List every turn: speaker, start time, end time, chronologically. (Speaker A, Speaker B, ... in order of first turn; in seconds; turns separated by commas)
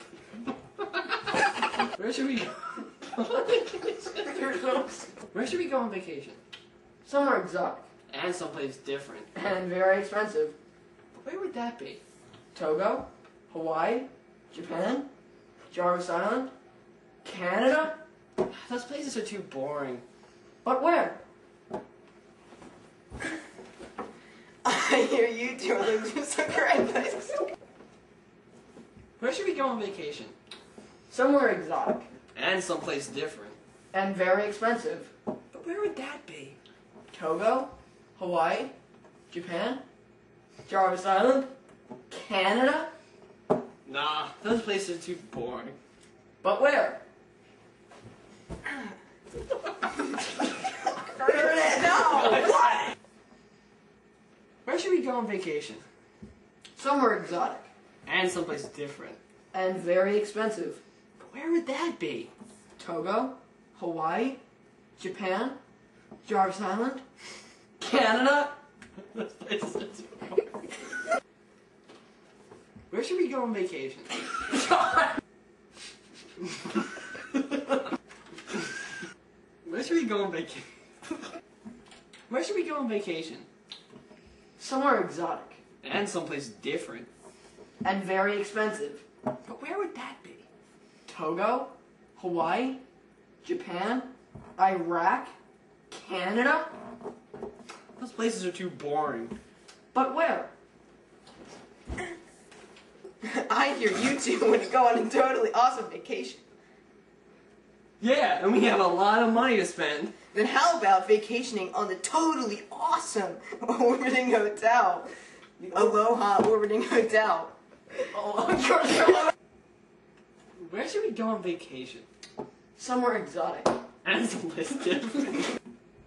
Speaker A: 1.9-4.3, Speaker B: 4.2-5.2, Speaker A: 5.3-6.4, Speaker B: 7.0-7.9, Speaker A: 8.1-9.3, Speaker B: 9.3-10.6, Speaker A: 11.1-12.0, Speaker B: 12.5-15.1, Speaker B: 15.7-16.5, Speaker B: 17.2-18.0, Speaker A: 18.5-20.0, Speaker B: 20.6-21.2, Speaker C: 24.6-27.5, Speaker A: 29.2-30.3, Speaker B: 31.1-32.1, Speaker A: 32.3-33.6, Speaker B: 33.9-35.1, Speaker A: 35.5-36.6, Speaker B: 37.1-38.7, Speaker B: 39.3-39.8, Speaker B: 40.7-41.5, Speaker B: 42.1-42.9, Speaker A: 43.9-45.8, Speaker B: 46.4-47.0, Speaker C: 51.2-52.5, Speaker B: 51.2-52.5, Speaker A: 52.2-52.7, Speaker A: 54.6-55.8, Speaker B: 56.8-57.7, Speaker A: 58.0-59.2, Speaker B: 59.5-60.8, Speaker A: 61.2-62.3, Speaker B: 62.8-64.4, Speaker B: 65.0-65.6, Speaker B: 66.2-67.0, Speaker B: 67.8-68.6, Speaker A: 69.1-70.5, Speaker A: 72.9-74.3, Speaker A: 79.6-81.2, Speaker A: 82.3-83.5, Speaker B: 84.6-85.6, Speaker A: 85.8-87.1, Speaker B: 87.8-89.0, Speaker A: 89.4-90.5, Speaker B: 91.1-92.8, Speaker B: 93.4-95.3, Speaker B: 95.9-96.7, Speaker A: 98.0-99.3, Speaker B: 99.9-100.5, Speaker C: 103.2-106.4, Speaker A: 108.0-110.1, Speaker C: 110.3-115.1, Speaker C: 115.7-117.5, Speaker B: 118.1-119.3, Speaker A: 120.6-122.0, Speaker B: 122.8-123.7, Speaker A: 124.0-125.5